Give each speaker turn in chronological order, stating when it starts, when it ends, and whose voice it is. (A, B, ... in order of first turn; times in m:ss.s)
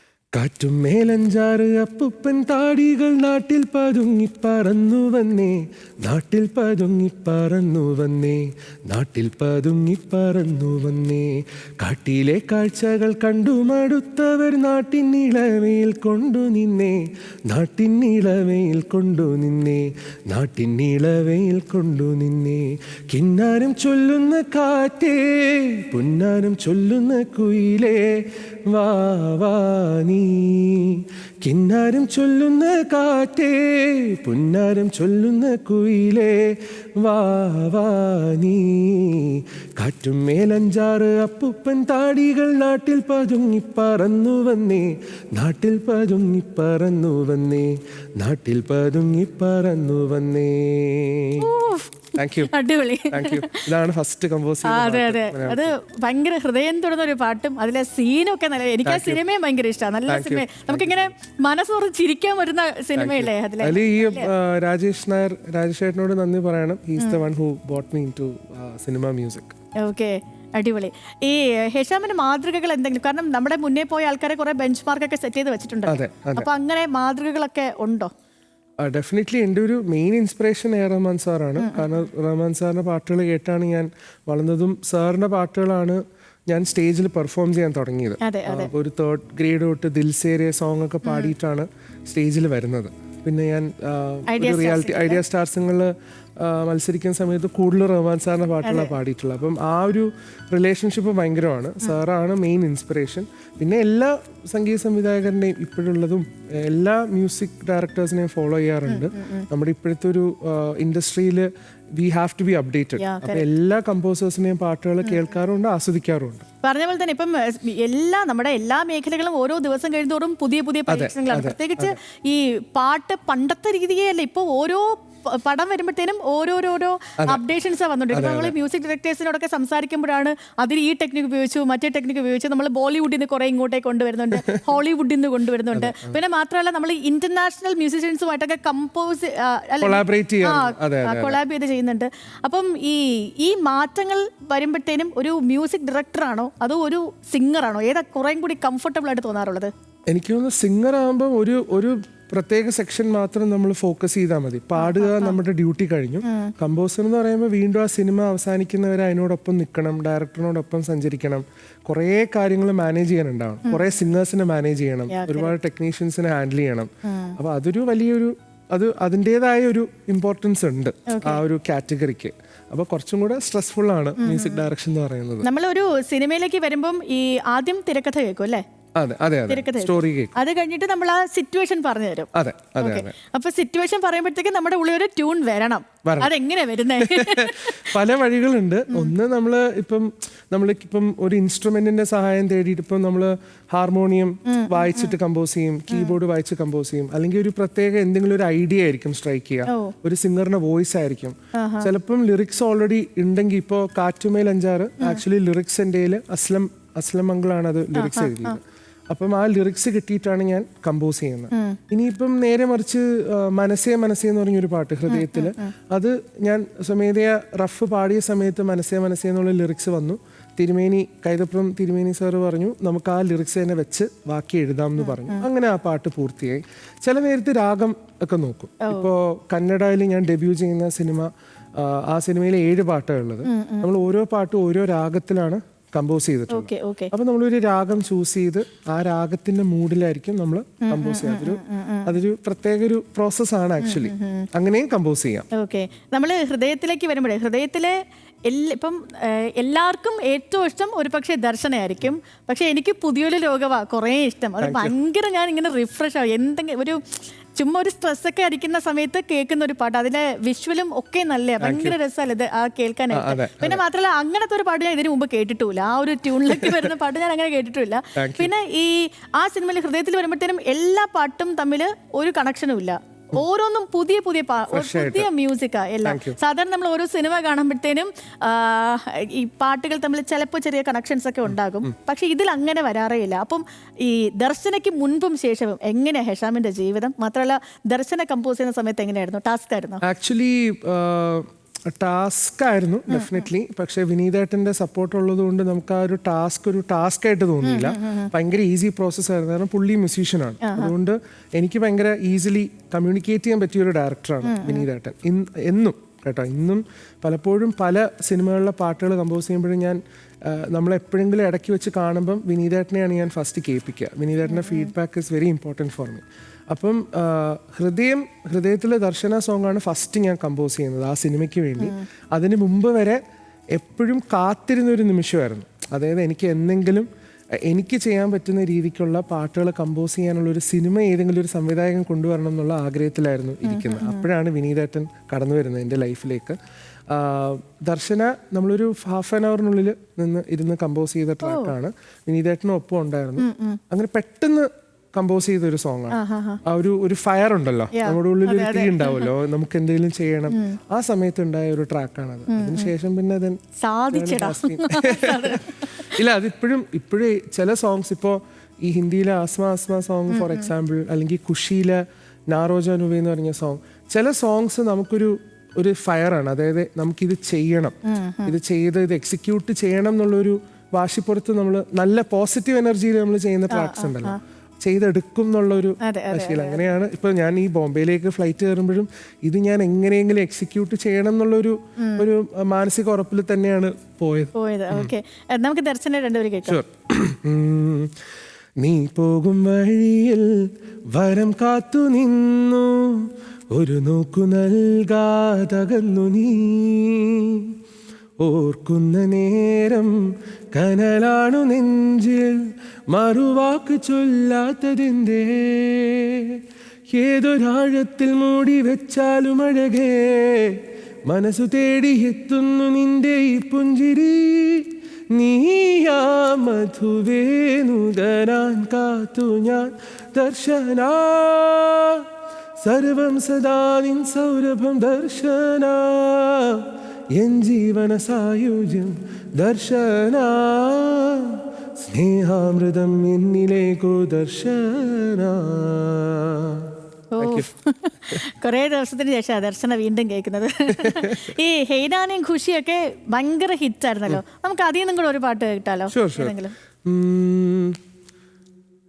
0:00.3-0:51.5 A
0:51.4-0:53.7 B
0:52.1-0:52.5 A
0:53.1-0:55.7 A
0:54.6-1:04.3 B
0:58.8-0:59.2 A
1:00.1-1:01.1 A
1:03.0-1:09.5 A
1:09.8-1:18.1 B
1:15.9-1:16.5 A
1:18.8-1:56.4 A
1:21.6-1:22.0 B
1:28.2-1:28.7 B
1:31.0-1:31.3 B
1:34.3-1:35.2 B
1:38.6-1:38.9 B
1:48.9-1:49.5 B
1:53.0-1:53.4 B
1:56.6-2:29.7 B
2:00.9-2:02.0 A
2:08.1-2:08.5 A
2:15.7-2:16.2 A
2:19.8-2:21.4 A
2:30.1-2:55.5 A
2:34.8-2:35.4 B
2:36.2-2:36.5 B
2:45.1-2:45.5 B
2:47.0-2:47.4 B
2:51.1-2:51.4 B
2:54.2-2:54.6 B
2:55.4-2:58.6 B
2:59.0-3:00.3 A
2:59.5-3:07.9 B
3:02.3-3:03.1 A
3:06.0-3:06.3 A
3:07.0-4:05.5 A
3:14.4-3:15.1 B
3:19.7-3:19.9 B
3:21.5-3:21.9 B
3:27.9-3:28.6 B
3:31.5-3:31.8 B
3:35.1-3:35.7 B
3:45.0-3:45.4 B
3:53.4-3:53.9 B
3:56.5-3:57.1 B
4:00.8-4:02.1 B
4:03.8-4:04.5 B
4:05.5-4:07.9 B
4:08.4-4:17.0 B
4:14.6-4:14.9 A
4:17.5-4:50.0 B
4:21.6-4:22.0 A
4:23.1-4:23.8 A
4:26.5-4:26.9 A
4:28.2-4:28.5 A
4:34.7-4:35.3 A
4:36.0-4:36.4 A
4:41.5-4:41.9 A
4:50.0-5:23.2 A
4:53.1-4:53.4 B
4:57.6-4:58.3 B
5:00.6-5:00.9 B
5:04.4-5:04.8 B
5:14.5-5:14.9 B
5:23.7-5:27.1 A
5:27.6-5:36.6 A
5:33.6-5:34.2 B
5:37.1-5:53.6 A
5:41.4-5:41.7 B
5:43.4-5:43.8 B
5:46.1-5:46.6 B
5:47.9-5:49.3 B
5:50.5-5:50.8 B
5:52.5-5:52.9 B
5:53.8-5:56.2 B
5:54.1-6:25.1 A
6:00.3-6:00.7 B
6:08.0-6:08.6 B
6:13.7-6:14.4 B
6:16.0-6:16.8 B
6:22.0-6:22.3 B
6:24.5-6:26.8 B
6:26.6-6:28.1 A
6:28.8-6:37.7 A
6:38.4-6:40.2 A
6:40.7-6:42.6 A
6:43.1-7:17.7 A
7:17.3-7:26.7 B
7:20.9-7:21.5 A
7:26.1-7:28.0 A